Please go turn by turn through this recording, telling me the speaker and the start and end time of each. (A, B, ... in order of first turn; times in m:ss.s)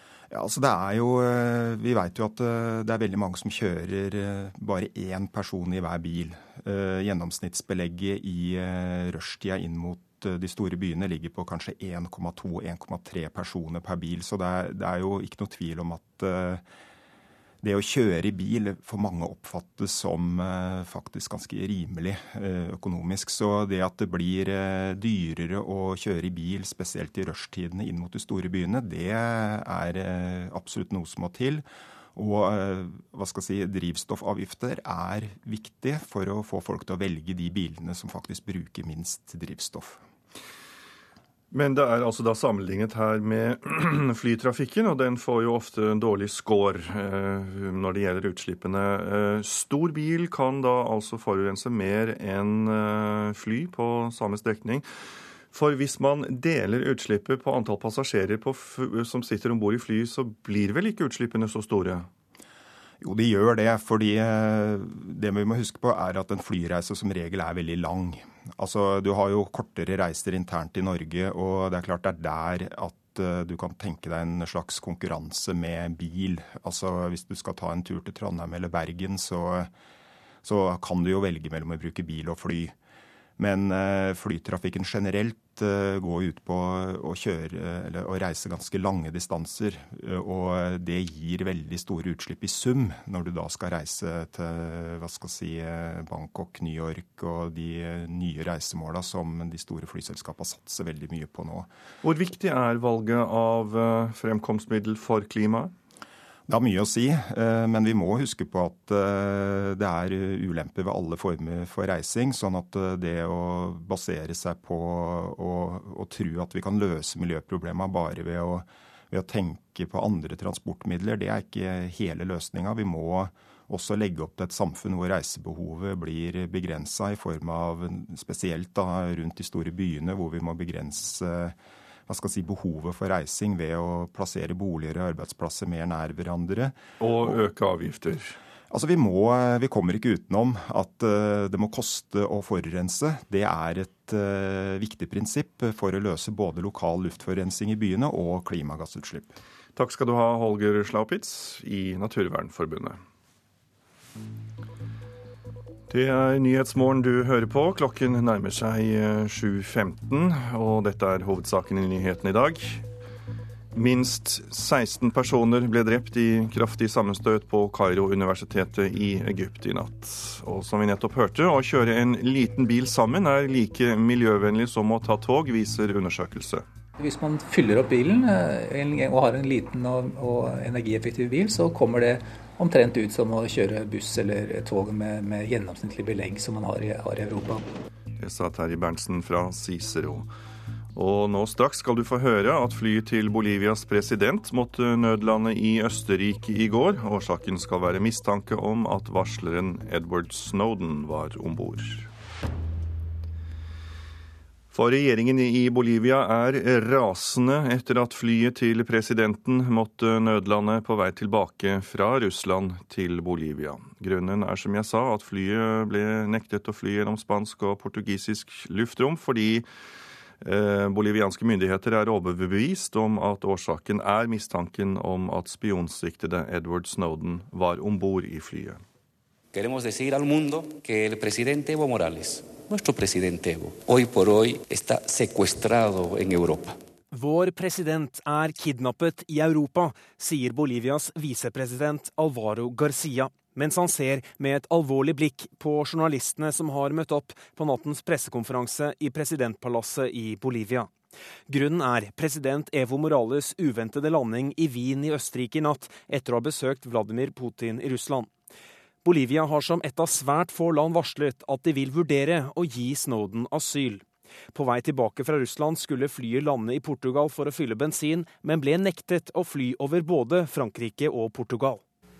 0:00.3-0:16.6 A
0:17.6-0:40.0 A
0:41.5-0:54.8 B
0:55.5-1:02.1 B
1:03.0-1:19.7 A
1:20.4-1:22.7 A
1:23.4-1:41.7 A
1:42.0-1:45.7 B
1:46.5-2:16.8 A
2:17.0-2:18.4 B
2:18.7-2:29.3 A
2:29.7-2:33.0 B
2:35.9-2:42.9 B
2:43.7-2:56.6 B
2:57.0-3:07.6 C
3:08.2-3:10.3 B
3:10.9-3:22.1 B
3:24.7-3:39.6 B
3:40.4-3:48.8 B
3:49.5-3:56.7 D
3:57.1-4:10.9 E
4:11.5-4:18.3 E
4:19.0-4:31.8 E